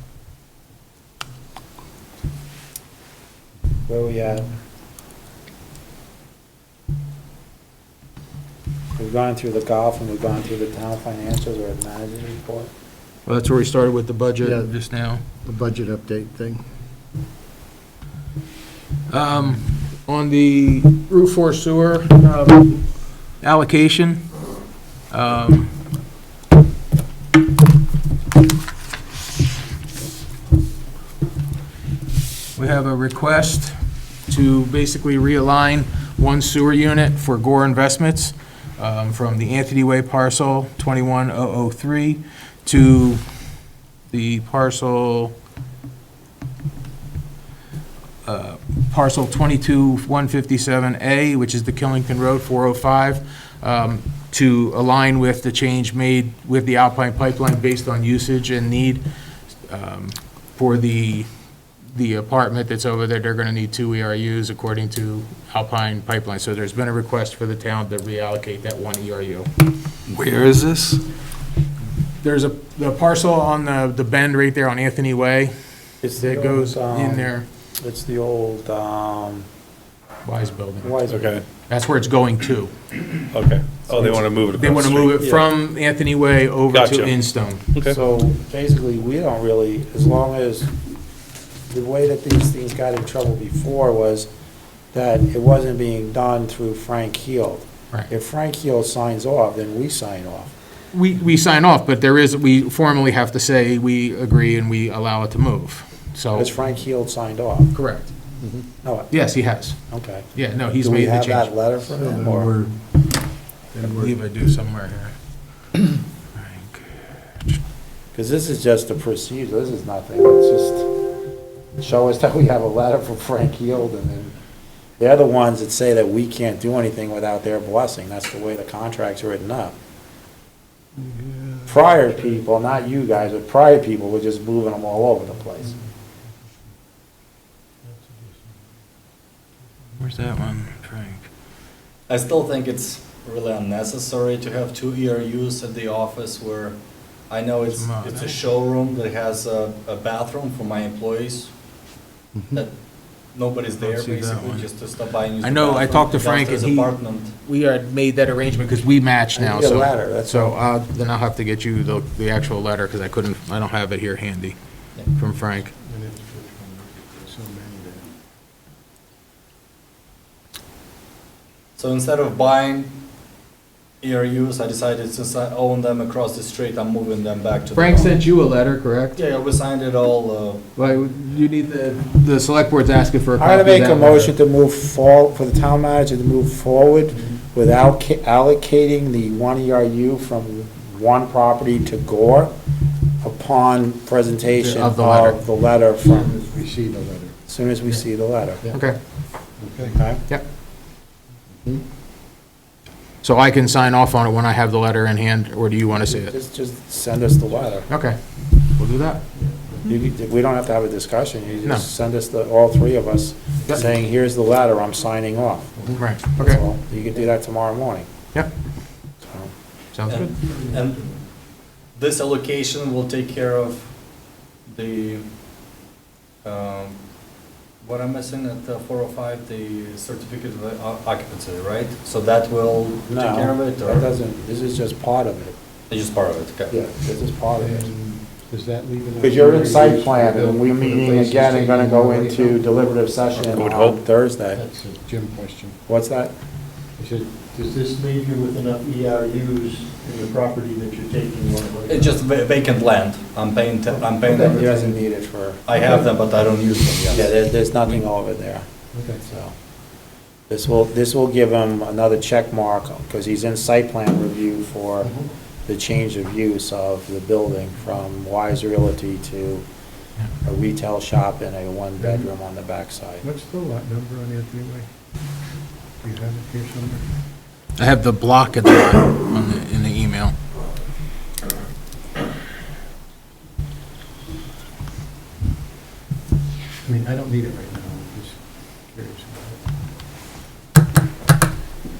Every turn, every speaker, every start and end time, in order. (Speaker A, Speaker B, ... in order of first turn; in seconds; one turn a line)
Speaker A: 3.9-4.5
Speaker A: 8.9-12.7
Speaker B: 13.2-15.2
Speaker C: 14.4-14.7
Speaker C: 15.3-16.6
Speaker B: 19.1-24.4
Speaker B: 25.1-25.7
Speaker B: 32.5-33.7
Speaker B: 34.3-43.2
Speaker B: 44.1-45.3
Speaker B: 48.2-61.3
Speaker B: 61.9-69.5
Speaker D: 70.1-71.0
Speaker B: 72.2-75.5
Speaker A: 76.0-79.5
Speaker B: 76.2-77.5
Speaker B: 80.2-81.0
Speaker A: 80.8-81.3
Speaker E: 81.1-81.4
Speaker B: 81.7-82.7
Speaker E: 83.3-85.4
Speaker B: 84.0-87.7
Speaker E: 86.7-87.2
Speaker A: 87.8-90.7
Speaker A: 91.7-94.3
Speaker A: 94.9-100.5
Speaker B: 100.9-106.5
Speaker A: 106.3-107.7
Speaker B: 107.7-108.1
Speaker C: 108.4-108.7
Speaker A: 108.8-109.2
Speaker B: 109.1-111.6
Speaker A: 109.9-112.5
Speaker C: 111.9-112.8
Speaker C: 113.7-114.1
Speaker B: 113.8-115.1
Speaker B: 116.3-117.3
Speaker A: 118.1-120.8
Speaker A: 121.8-124.3
Speaker A: 125.0-129.7
Speaker C: 131.0-131.7
Speaker A: 131.7-135.8
Speaker B: 140.0-141.3
Speaker D: 142.1-151.5
Speaker B: 147.7-148.4
Speaker C: 152.3-152.6
Speaker D: 152.5-157.3
Speaker B: 153.8-154.7
Speaker B: 155.4-164.6
Speaker A: 159.3-160.6
Speaker B: 165.1-165.7
Speaker C: 165.8-168.1
Speaker D: 171.8-172.9
Speaker D: 174.0-178.2
Speaker B: 177.7-179.2
Speaker D: 179.2-180.6
Speaker B: 180.8-184.3
Speaker A: 183.4-192.5
Speaker A: 193.2-196.3
Speaker B: 194.6-195.4
Speaker C: 196.0-197.3
Speaker A: 197.5-198.6
Speaker B: 198.7-199.0
Speaker C: 199.6-199.9
Speaker A: 199.8-200.2
Speaker B: 203.2-206.3
Speaker A: 206.0-207.9
Speaker B: 207.9-209.2
Speaker C: 209.3-209.8
Speaker A: 209.8-218.1
Speaker B: 216.0-216.6
Speaker A: 219.2-219.5
Speaker B: 219.9-220.3
Speaker D: 220.1-221.1
Speaker C: 220.4-221.2
Speaker D: 221.9-225.3
Speaker D: 226.4-227.0
Speaker D: 227.8-234.1
Speaker A: 233.1-235.5
Speaker D: 235.9-236.7
Speaker A: 236.7-237.9
Speaker C: 237.6-242.6
Speaker A: 239.2-244.6
Speaker E: 243.5-244.0
Speaker C: 244.5-245.8
Speaker A: 245.9-246.3
Speaker C: 246.9-252.2
Speaker D: 251.9-254.8
Speaker C: 254.2-254.9
Speaker A: 254.3-255.7
Speaker D: 255.6-258.0
Speaker C: 255.8-256.0
Speaker A: 257.1-259.6
Speaker C: 258.9-259.2
Speaker A: 260.5-265.1
Speaker C: 265.0-265.3
Speaker A: 265.6-269.6
Speaker A: 270.4-273.2
Speaker C: 272.0-272.3
Speaker C: 273.2-274.9
Speaker C: 276.0-277.1
Speaker B: 277.8-280.3
Speaker C: 286.8-289.6